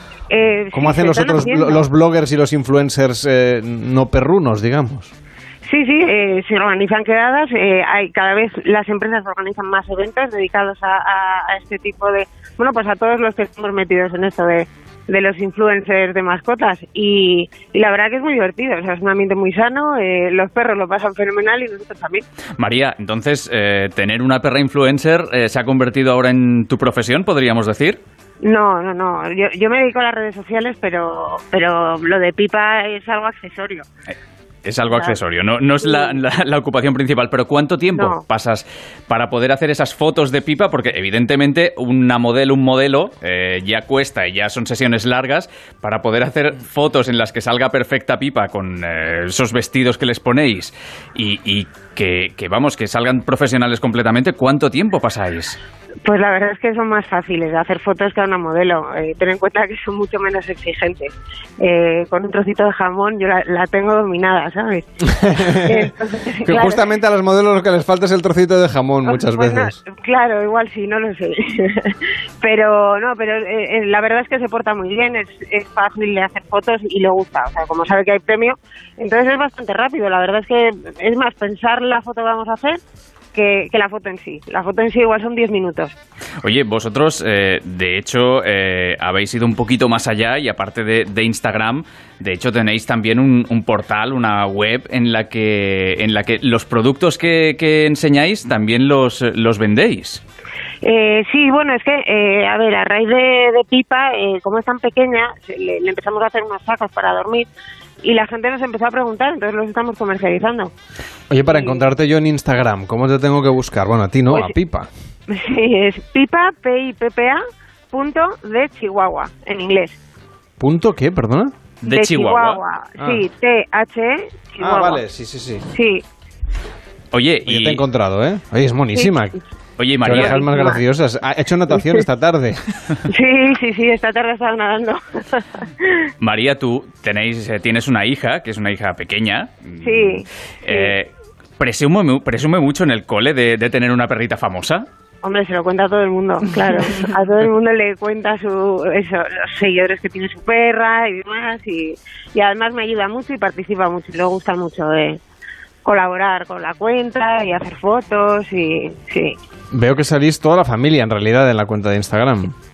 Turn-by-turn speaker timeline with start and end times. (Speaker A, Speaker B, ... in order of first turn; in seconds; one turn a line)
Speaker A: 0.3-1.9
Speaker B: 0.7-5.1
Speaker A: 5.6-22.2
Speaker C: 22.6-28.0
Speaker A: 28.4-33.9
Speaker C: 34.6-55.6
Speaker A: 34.9-35.2
Speaker A: 35.8-36.2
Speaker A: 37.9-38.2
Speaker A: 56.0-66.8
Speaker B: 65.1-65.9
Speaker B: 66.4-69.8
Speaker A: 69.1-82.8
Speaker A: 83.3-85.9
Speaker C: 86.4-100.2
Speaker A: 100.8-107.5
Speaker A: 108.0-110.7
Speaker B: 111.3-114.9
Speaker A: 111.5-111.8
Speaker A: 115.3-117.4
Speaker A: 117.9-120.0
Speaker B: 120.6-121.5
Speaker A: 121.8-125.0
Speaker C: 121.8-122.6
Speaker B: 123.0-123.2
Speaker B: 124.6-125.7
Speaker A: 125.7-126.0
Speaker C: 127.1-127.8
Speaker B: 127.5-129.4
Speaker C: 129.8-130.4
Speaker B: 130.0-132.6
Speaker A: 130.2-130.8
Speaker A: 131.7-132.0
Speaker A: 133.1-136.1
Speaker C: 136.2-144.8
Speaker A: 139.8-140.9
Speaker A: 145.2-155.2
Speaker A: 155.8-159.4
Speaker B: 159.7-162.5